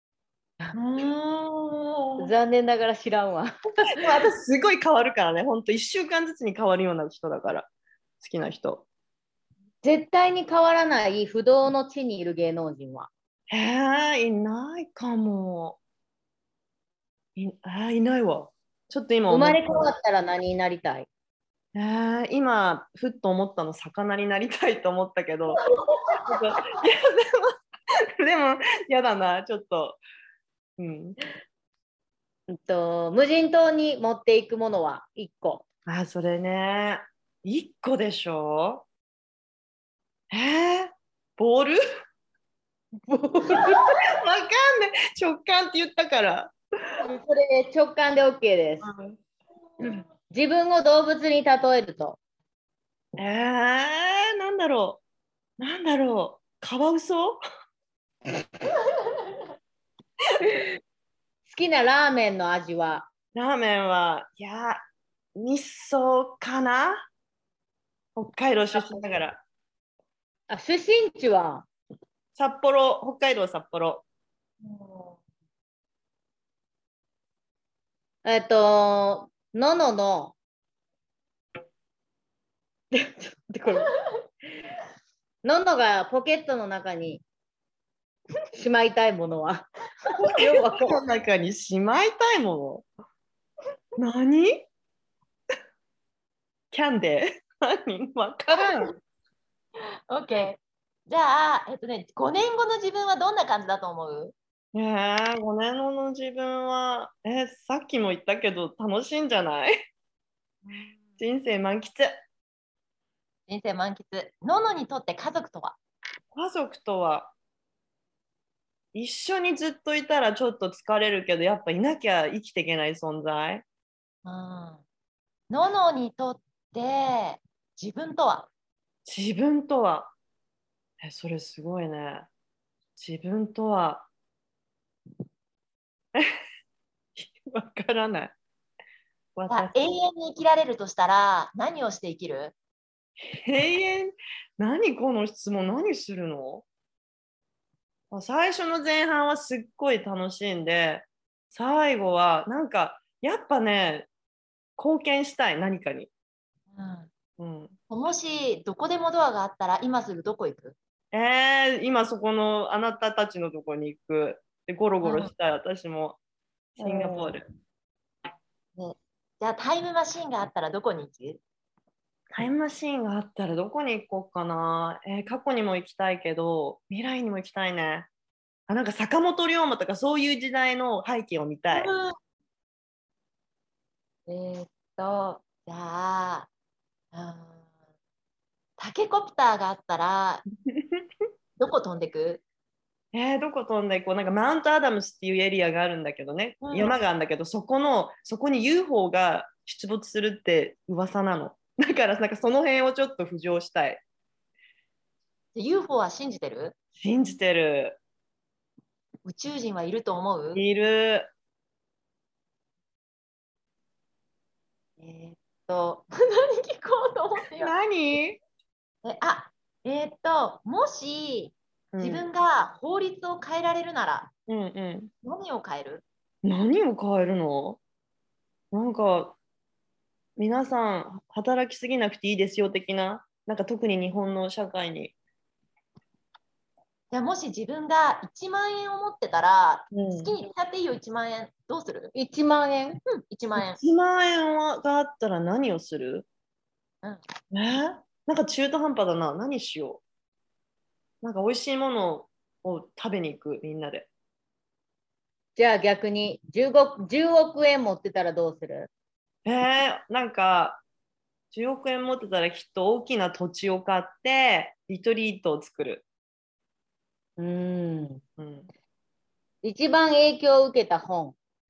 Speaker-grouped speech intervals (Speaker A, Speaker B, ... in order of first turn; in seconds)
Speaker A: 0.8-1.9, 3.9-7.7, 8.2-8.8, 13.5-15.8, 17.4-19.9, 21.7-25.6, 26.2-27.5, 28.2-30.0, 30.8-31.2, 35.9-38.8, 40.3-41.8, 44.0-46.5, 48.8-49.2, 53.2-55.0, 55.6-57.4, 63.3-64.8, 65.3-67.0, 68.2-69.4, 72.3-74.0, 90.2-92.8, 94.0-94.7, 96.7-98.9, 104.7-109.8, 111.2-112.1, 116.3-117.3, 118.9-123.6, 129.0-130.1, 131.0-132.3, 133.0-134.1, 137.2-138.3, 139.3-139.8, 143.4-146.6, 148.1-154.1, 154.8-156.1, 157.4-157.7, 161.1-166.2, 166.8-167.4, 172.3-178.1, 178.7-181.9, 190.7-191.0, 193.1-204.0, 206.9-208.0, 210.5-211.3, 217.6-218.4, 221.9-222.3, 224.5-225.1, 226.4-227.8, 228.7-229.4, 230.4-235.1, 239.9-240.3, 243.6-246.3, 247.5-250.0, 251.2-254.1, 259.4-260.8, 261.5-266.0, 268.4-268.7
Speaker B: 2.2-4.1, 9.8-13.1, 19.3-21.1, 32.5-35.6, 43.0-44.0, 47.0-48.9, 49.8-52.2, 61.5-63.1, 70.5-71.7, 78.2-80.3, 82.9-83.9, 85.4-87.2, 88.5-91.0, 242.1-243.0, 255.6-258.9, 267.4-268.2, 269.6-271.4
Speaker C: 74.6-75.2, 100.1-104.3, 110.7-110.9, 113.5-115.8, 124.2-124.8, 125.5-128.5, 139.5-142.5, 156.7-157.1, 157.9-160.8, 165.0-165.3, 166.8-167.3, 168.8-171.4, 181.7-182.1, 184.3-186.5, 187.1-187.6, 188.8-190.4, 191.6-192.4, 196.6-197.0, 205.5-206.7, 209.2-210.6, 215.0-217.7, 219.0-224.3, 225.2-226.0, 237.1-242.1, 243.1-243.8